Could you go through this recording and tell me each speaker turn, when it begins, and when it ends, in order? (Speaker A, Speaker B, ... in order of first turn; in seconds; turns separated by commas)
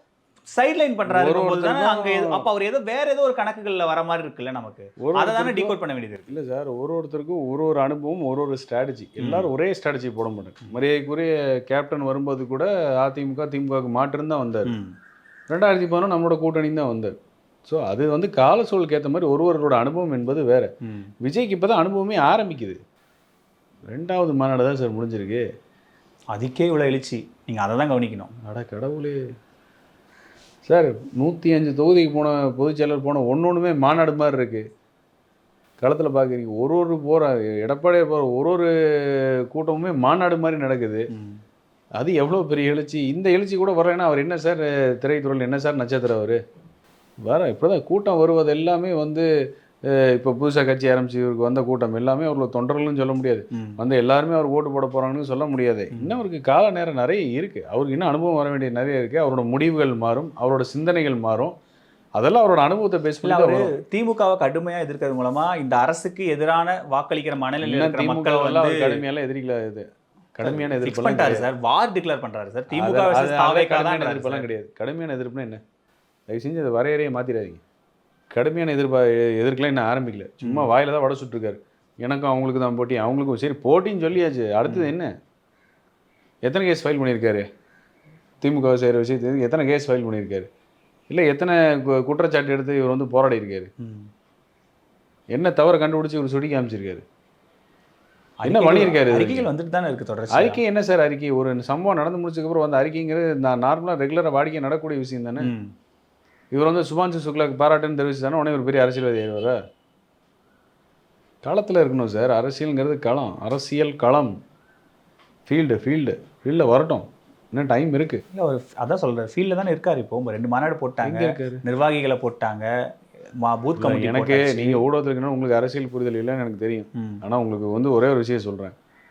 Speaker A: 0.5-6.3, Speaker B: 1.1-2.4, Speaker B: 5.0-14.7, Speaker A: 9.2-9.5, Speaker A: 14.7-14.9, Speaker B: 15.5-17.1, Speaker B: 17.7-20.7, Speaker B: 21.2-22.8, Speaker B: 23.9-25.4, Speaker A: 26.3-28.3, Speaker B: 28.4-29.2, Speaker B: 30.7-34.7, Speaker B: 35.8-41.1, Speaker B: 42.0-46.4, Speaker B: 47.2-49.3, Speaker B: 49.9-61.5, Speaker B: 62.2-63.7, Speaker A: 63.2-69.0, Speaker B: 67.6-71.5, Speaker A: 70.4-74.5, Speaker B: 72.7-75.6, Speaker B: 76.3-77.6, Speaker B: 78.3-85.1, Speaker A: 80.4-80.7, Speaker A: 84.7-84.9, Speaker B: 86.4-87.5, Speaker B: 88.4-90.5, Speaker B: 91.1-93.7, Speaker A: 93.8-94.1, Speaker B: 95.3-97.0, Speaker A: 98.4-100.6, Speaker B: 98.5-99.5, Speaker B: 100.3-105.5, Speaker A: 105.4-105.7, Speaker B: 106.5-109.6, Speaker B: 111.4-114.3, Speaker B: 115.5-118.2, Speaker A: 118.3-122.7, Speaker B: 121.0-121.6, Speaker A: 123.4-124.8, Speaker B: 123.8-128.8